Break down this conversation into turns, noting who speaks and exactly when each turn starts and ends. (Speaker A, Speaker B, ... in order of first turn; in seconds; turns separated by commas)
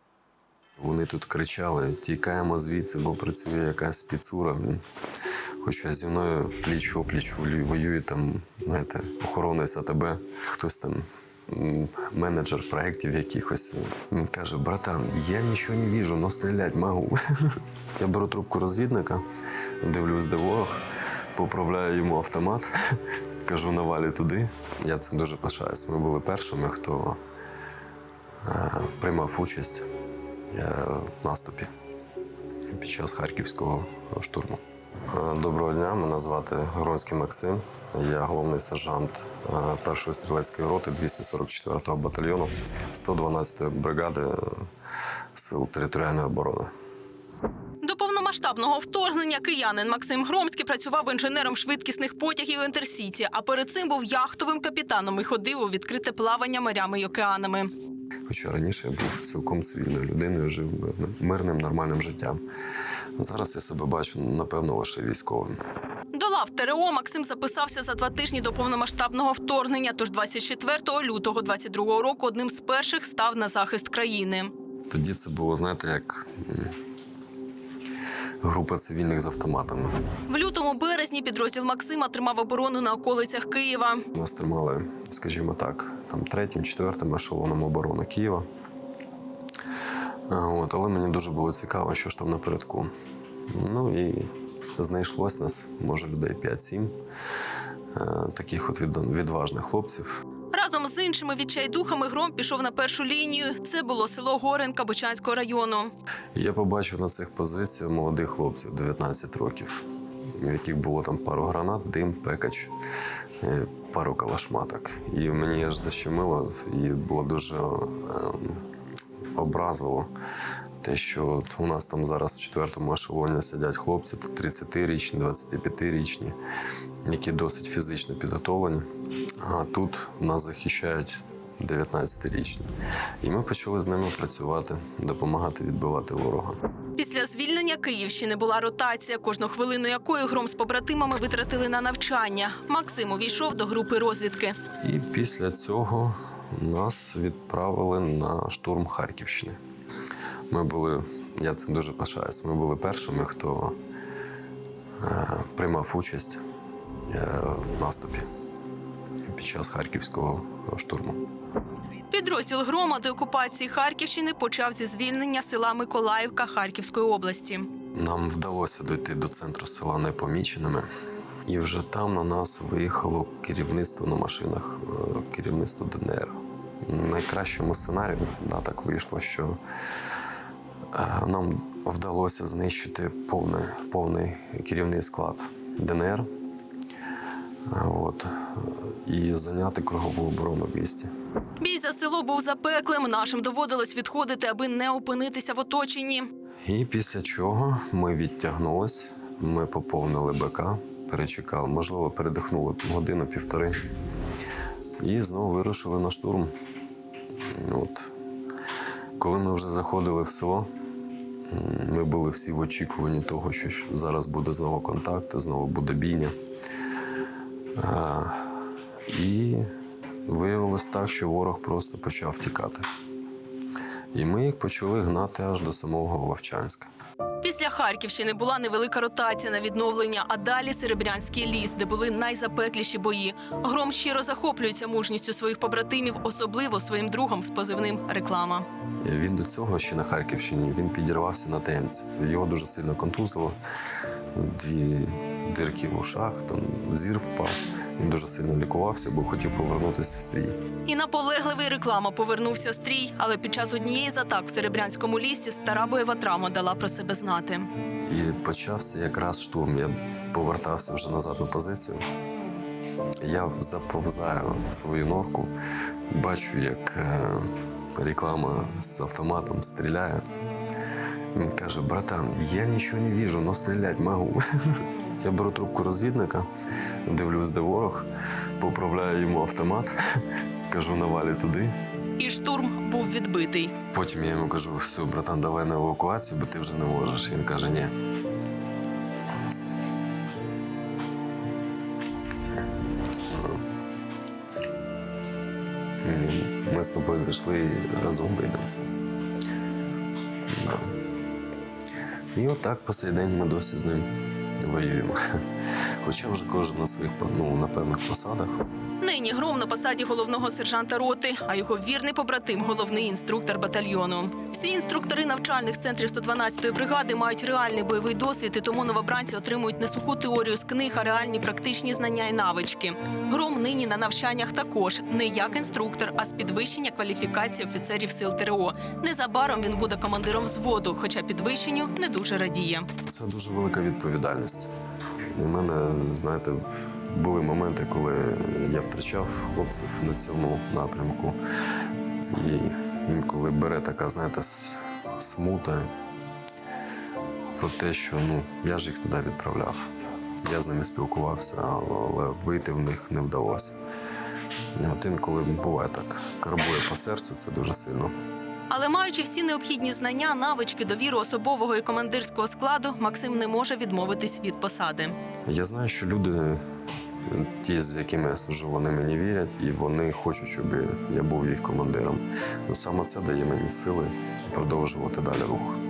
Speaker A: 0.8-4.8, Speaker A: 5.6-19.2, Speaker A: 19.8-20.8, Speaker A: 21.4-27.2, Speaker A: 28.4-29.9, Speaker A: 30.5-31.7, Speaker A: 32.7-44.7, Speaker A: 45.4-46.7, Speaker B: 47.8-57.7, Speaker A: 58.3-62.4, Speaker A: 63.2-65.6, Speaker B: 66.1-74.5, Speaker A: 74.9-76.8, Speaker A: 78.4-80.0, Speaker B: 80.3-84.0, Speaker A: 84.2-88.5, Speaker A: 90.3-92.9, Speaker A: 93.5-97.0, Speaker A: 97.9-100.2, Speaker B: 100.5-105.9, Speaker A: 106.3-112.7, Speaker A: 113.4-118.6, Speaker A: 119.3-120.1, Speaker A: 120.8-126.4, Speaker A: 127.0-128.9, Speaker A: 129.4-132.7, Speaker A: 133.2-136.6, Speaker B: 137.0-144.6, Speaker A: 144.8-149.6, Speaker A: 150.5-153.8, Speaker A: 155.0-156.4, Speaker A: 157.1-158.3, Speaker A: 159.3-161.2, Speaker B: 162.1-167.7, Speaker A: 167.9-170.9, Speaker A: 171.5-179.6, Speaker A: 180.9-186.3, Speaker A: 187.7-191.1, Speaker B: 191.6-196.3, Speaker A: 196.7-203.8, Speaker A: 205.0-206.5, Speaker A: 207.5-208.1, Speaker A: 209.2-210.7, Speaker A: 211.5-216.3, Speaker A: 217.8-218.6, Speaker A: 219.1-219.7, Speaker A: 220.3-222.9, Speaker A: 224.1-226.9, Speaker B: 227.4-238.7, Speaker A: 239.0-243.6, Speaker A: 244.3-250.6, Speaker B: 250.9-257.7, Speaker A: 258.1-262.0, Speaker A: 263.2-265.5, Speaker A: 266.1-270.2, Speaker A: 271.3-276.5, Speaker A: 277.1-278.1, Speaker A: 278.6-281.7, Speaker B: 282.2-283.8, Speaker A: 283.9-287.9, Speaker A: 293.3-293.6, Speaker A: 296.0-298.7, Speaker A: 300.5-301.0, Speaker A: 302.3-304.1, Speaker A: 304.6-305.2, Speaker A: 306.0-308.6, Speaker B: 309.0-332.9, Speaker A: 333.0-334.7, Speaker A: 335.3-341.4, Speaker A: 342.3-345.9, Speaker A: 347.6-349.9, Speaker A: 350.4-353.8, Speaker A: 354.8-358.1, Speaker B: 358.7-365.2, Speaker A: 365.5-366.6, Speaker A: 367.2-375.8